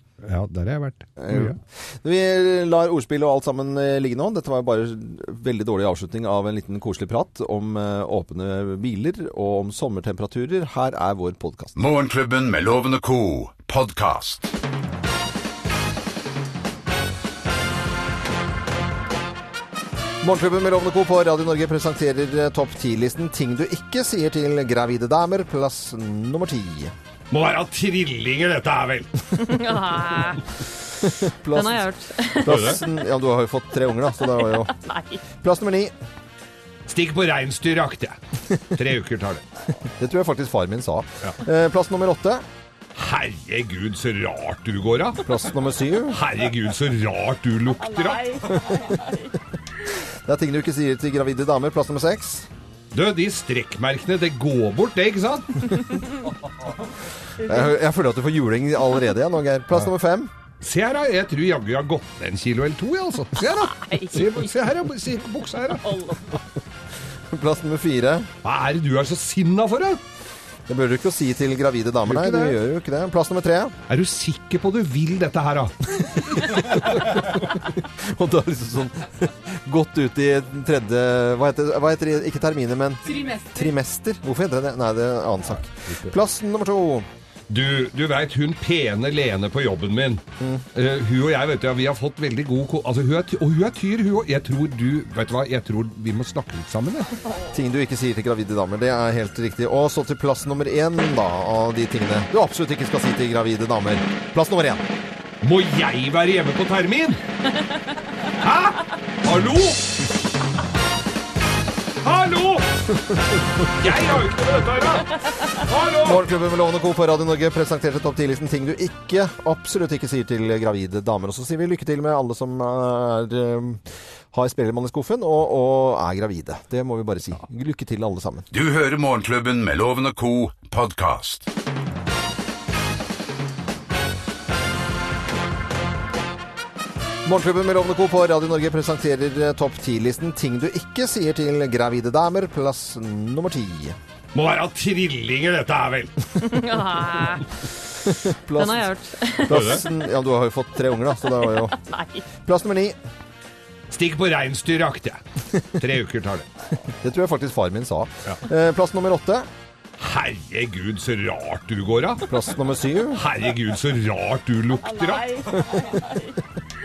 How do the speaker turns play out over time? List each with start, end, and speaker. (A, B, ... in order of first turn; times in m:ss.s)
0:00.2-0:01.6 A
0:01.2-0:11.8 B
0:11.8-0:14.5 C
0:20.2-0:26.9 B
0:27.3-0:29.6 A
0:29.4-0:30.4 D
0:31.2-0:31.9 B
0:31.5-0:32.7 D
0:32.4-0:34.7 B
0:32.4-0:32.8 A
0:34.4-0:35.2 D
0:35.4-0:35.9 B
0:36.9-0:38.2 A
0:38.7-0:39.4 A
0:40.0-0:42.4 B
0:42.9-0:45.3 A
0:45.2-0:46.2 B
0:46.1-0:48.6 A
0:50.2-0:52.5 B
0:52.9-0:55.9 A
0:57.4-1:00.3 B
1:00.6-1:06.0 A
1:03.7-1:04.4 D
1:07.3-1:08.3 B
1:08.4-1:10.0 A
1:10.7-1:13.8 B
1:12.0-1:12.6 A
1:13.9-1:16.4 A
1:16.1-1:27.1 B
1:23.1-1:23.6 D
1:27.5-1:37.1 A
1:37.5-1:44.8 B
1:45.4-1:47.2 A
1:48.4-1:50.0 A
1:52.0-1:52.6 A
1:53.7-1:56.2 A
1:56.0-2:08.4 B
2:08.5-2:11.4 C
2:17.2-2:24.0 B
2:24.3-2:26.4 A
2:26.4-2:27.4 D
2:28.0-2:28.9 B
2:28.5-2:29.8 D
2:29.5-2:31.7 B
2:29.5-2:29.8 A
2:31.4-2:32.2 D
2:32.4-2:33.0 B
2:33.9-2:35.2 A
2:35.8-2:36.4 A
2:36.9-2:39.5 B
2:40.0-2:42.3 A
2:42.3-2:43.2 B
2:43.1-2:45.5 A